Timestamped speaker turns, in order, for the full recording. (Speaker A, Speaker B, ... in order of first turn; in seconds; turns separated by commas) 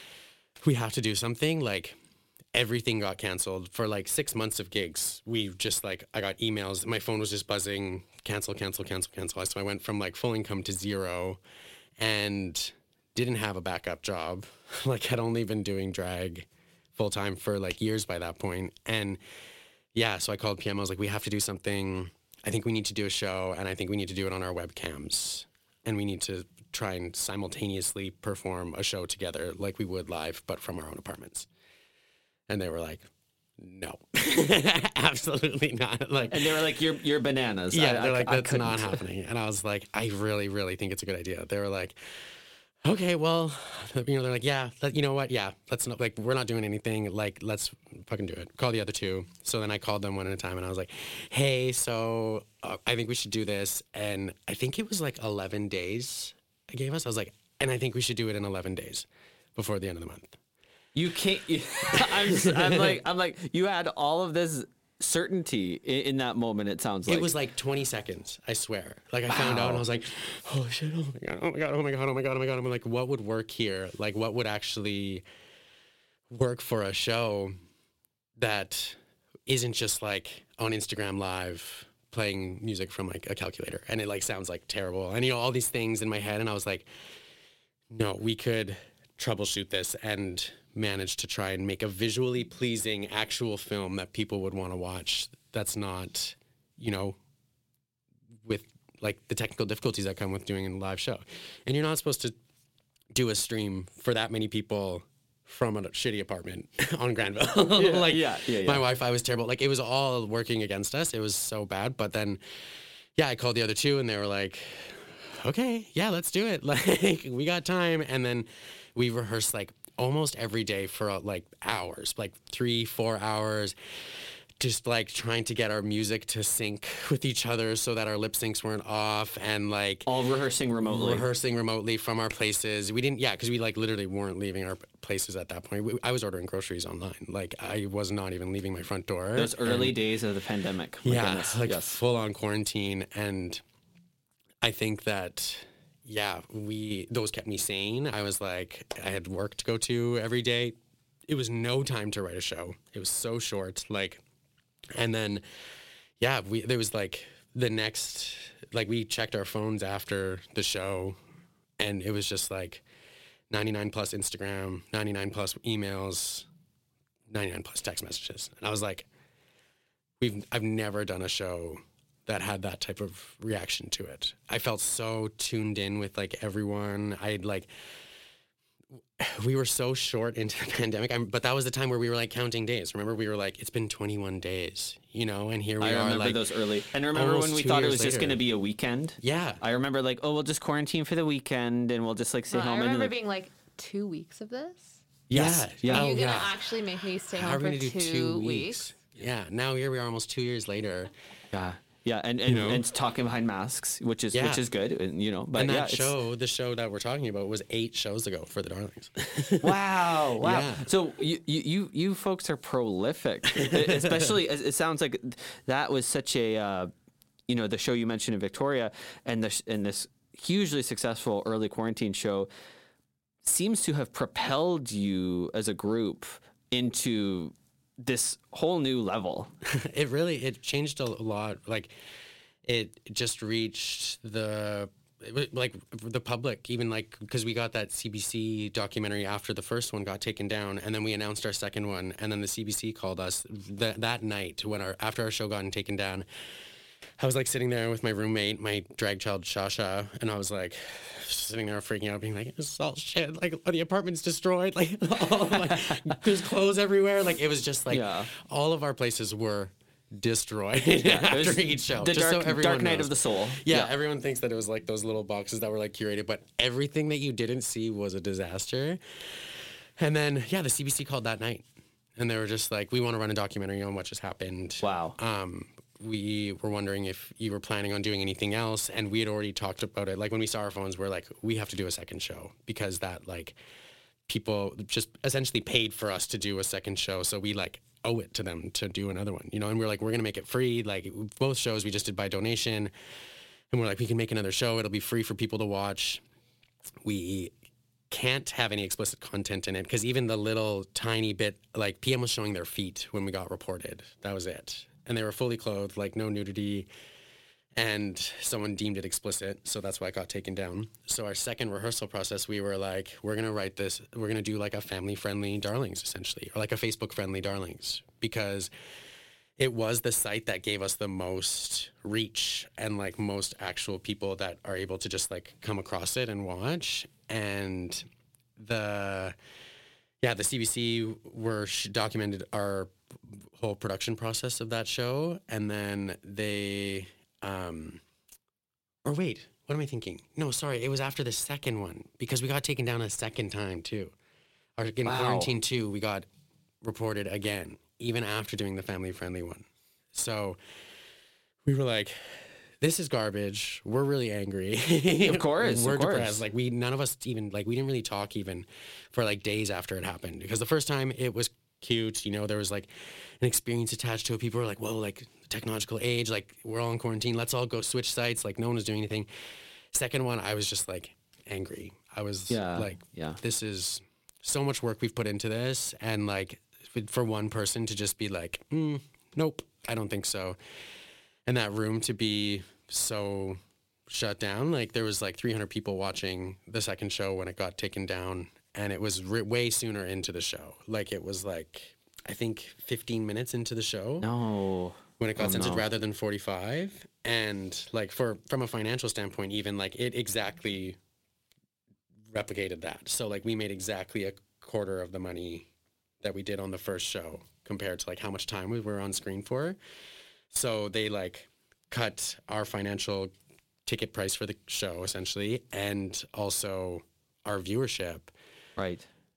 Speaker A: 0.6-2.0, Speaker A: 2.5-11.4, Speaker A: 12.0-19.2, Speaker A: 19.9-31.5, Speaker A: 32.5-36.8, Speaker B: 36.3-39.0, Speaker A: 37.7-60.4, Speaker B: 61.0-67.3, Speaker A: 61.8-63.0, Speaker A: 67.1-75.2, Speaker B: 69.3-69.8, Speaker A: 76.3-77.5, Speaker A: 78.4-86.9, Speaker A: 87.9-97.2, Speaker A: 98.5-102.3, Speaker A: 103.1-112.4, Speaker B: 107.8-108.8, Speaker A: 113.2-130.1, Speaker B: 130.1-131.3, Speaker A: 130.9-140.0, Speaker B: 139.3-142.0, Speaker A: 141.0-143.6, Speaker A: 144.6-154.2, Speaker A: 154.9-155.4, Speaker A: 156.2-161.2, Speaker A: 161.8-162.8, Speaker A: 163.5-166.5, Speaker A: 167.3-169.1, Speaker A: 170.2-177.7, Speaker A: 179.2-188.4, Speaker B: 185.8-193.1, Speaker A: 189.2-189.6, Speaker C: 192.5-195.0, Speaker A: 195.3-196.6, Speaker B: 195.3-196.1, Speaker C: 195.9-198.9, Speaker A: 197.3-201.1, Speaker B: 201.5-206.1, Speaker A: 202.4-202.8, Speaker A: 204.3-204.6, Speaker A: 205.5-210.9, Speaker B: 209.6-216.9, Speaker A: 213.5-214.3, Speaker B: 217.5-222.5, Speaker B: 223.4-229.5, Speaker A: 229.7-231.9, Speaker A: 232.7-246.3, Speaker A: 247.2-271.6, Speaker B: 255.7-256.0, Speaker B: 257.9-258.3, Speaker B: 261.0-263.9, Speaker A: 272.2-283.6, Speaker B: 274.8-275.2, Speaker A: 284.3-292.9, Speaker A: 293.7-296.2, Speaker A: 297.0-297.6, Speaker A: 298.1-306.9, Speaker A: 307.8-318.7, Speaker A: 319.6-328.1, Speaker A: 328.6-329.4, Speaker A: 330.2-338.0, Speaker A: 339.1-344.1, Speaker A: 344.8-346.2, Speaker B: 345.0-345.5, Speaker A: 346.8-350.6, Speaker A: 351.6-369.3, Speaker B: 355.2-356.4, Speaker A: 369.9-380.6, Speaker B: 372.5-373.4, Speaker A: 381.5-394.3, Speaker B: 394.2-395.9, Speaker A: 395.2-401.0, Speaker A: 402.3-405.7, Speaker A: 406.2-409.8, Speaker A: 410.5-413.3, Speaker A: 413.9-418.3, Speaker B: 418.8-419.1